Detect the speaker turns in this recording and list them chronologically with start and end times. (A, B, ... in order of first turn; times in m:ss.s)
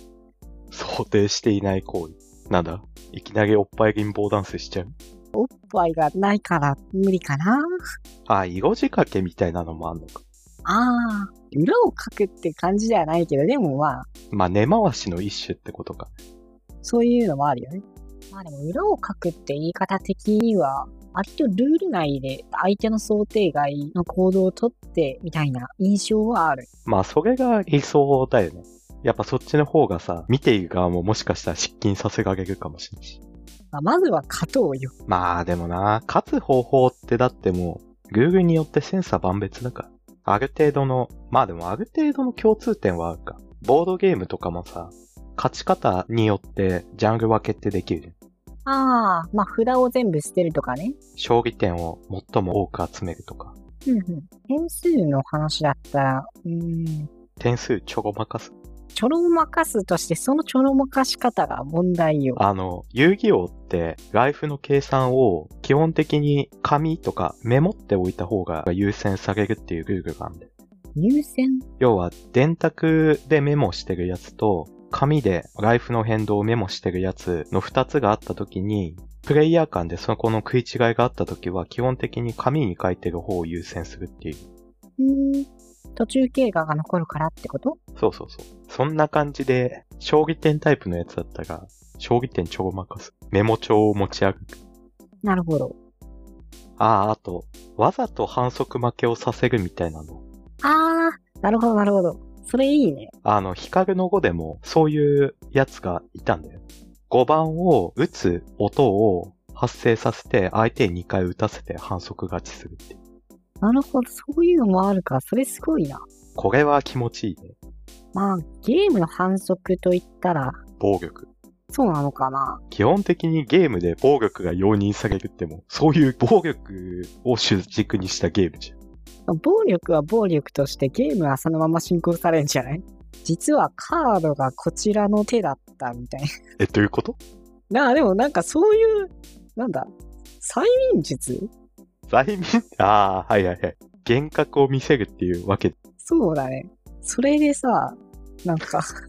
0:00.7-0:04.9 A
0:05.3-0:07.6 B
0:08.3-0:10.2 A
0:10.6-0:14.1 B
0:14.3-0:16.1 A
0:16.8-0:26.7 B
0:26.8-0:33.2 A
0:33.7-0:34.9 B
0:35.1-0:48.1 A
0:48.6-0:51.0 B
0:51.2-0:53.5 A
0:53.8-0:57.1 B
0:57.4-0:58.5 A
0:58.9-1:02.4 B
1:02.4-1:10.5 A
1:11.0-1:11.6 B
1:11.8-1:24.4 A
1:25.0-1:27.8 B
1:28.0-1:34.6 A
1:35.2-1:35.7 B
1:36.8-1:40.2 A
1:40.6-1:43.1 B
1:43.2-1:53.0 A
1:53.6-1:56.0 B
1:56.4-1:57.6 A
1:58.1-2:00.6 B
2:00.8-2:01.3 A
2:01.7-2:02.6 B
2:02.7-2:08.7 A
2:09.3-2:16.2 B
2:16.6-2:17.2 A
2:17.7-2:21.5 B
2:22.1-2:25.7 A
2:26.0-2:28.9 B